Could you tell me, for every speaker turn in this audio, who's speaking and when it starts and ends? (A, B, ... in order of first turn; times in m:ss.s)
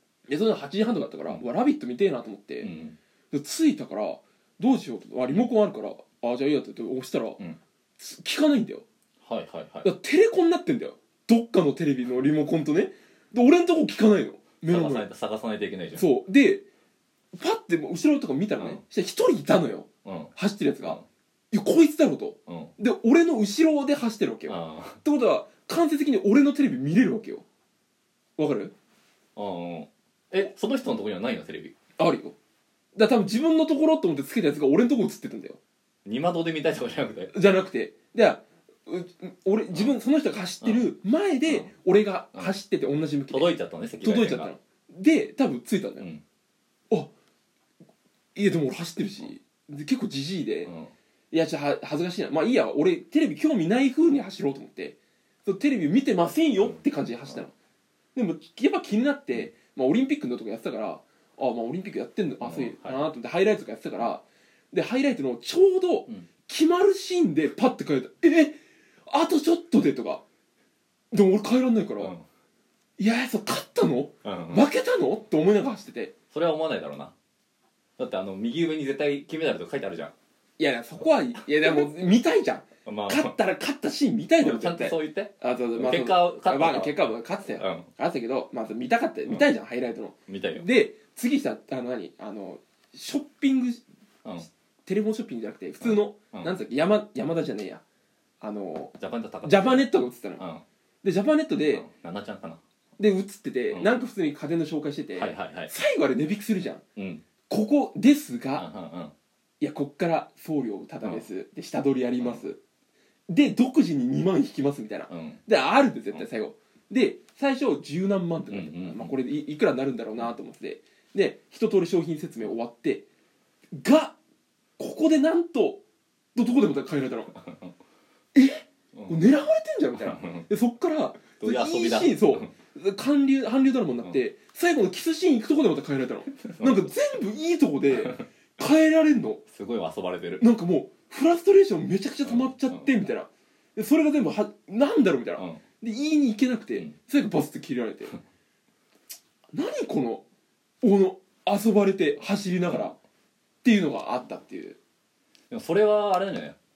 0:00.3-0:02.7 A
0:02.6-0:03.0 B
0:03.3-0:07.4 A
0:08.0-0:08.8 A
0:09.2-0:09.9 B
0:09.8-0:15.0 A
0:14.7-0:16.0 B
0:15.9-0:16.6 A
0:17.3-0:21.0 A
0:20.0-0:21.0 B
0:21.5-0:27.4 A
0:22.5-0:22.7 B
0:24.4-0:25.0 B
0:28.4-0:28.7 A
0:29.4-0:31.7 B
0:32.0-0:32.4 A
0:32.9-0:35.6 A
0:36.0-0:37.3 B
0:37.3-0:46.0 A
0:43.3-0:44.5 B
0:48.3-0:50.7 A
0:50.6-0:50.9 B
0:51.3-0:57.5 A
0:58.1-1:08.6 A
1:02.4-1:03.1 B
1:09.1-1:10.2 A
1:11.1-1:12.1 A
1:12.0-1:12.2 B
1:13.0-1:16.1 A
1:14.2-1:14.7 B
1:16.3-1:17.1 B
1:18.0-1:20.1 B
1:20.6-1:33.8 A
1:22.8-1:23.3 B
1:24.4-1:27.0 B
1:27.5-1:27.9 B
1:30.3-1:30.6 B
1:34.8-1:37.8 A
1:35.8-1:36.6 B
1:38.4-1:40.4 A
1:39.0-1:40.6 B
1:41.0-1:41.8 A
1:41.6-1:42.6 B
1:43.0-1:46.8 A
1:45.2-1:45.7 B
1:47.0-1:47.2 B
1:47.5-1:48.6 A
1:48.5-1:49.1 B
1:49.6-1:52.6 A
1:53.3-2:03.0 A
1:55.1-1:55.4 B
1:58.5-1:59.2 B
2:03.7-2:04.2 A
2:04.8-2:05.8 A
2:06.3-2:07.3 A
2:07.3-2:07.7 B
2:08.3-2:19.4 A
2:08.9-2:09.2 B
2:10.0-2:10.4 B
2:11.4-2:12.5 B
2:16.5-2:16.9 B
2:17.9-2:18.2 B
2:19.5-2:20.4 B
2:20.4-2:28.2 A
2:22.2-2:22.9 B
2:29.5-2:30.2 A
2:30.8-2:33.0 A
2:33.6-2:34.8 A
2:35.5-2:36.6 B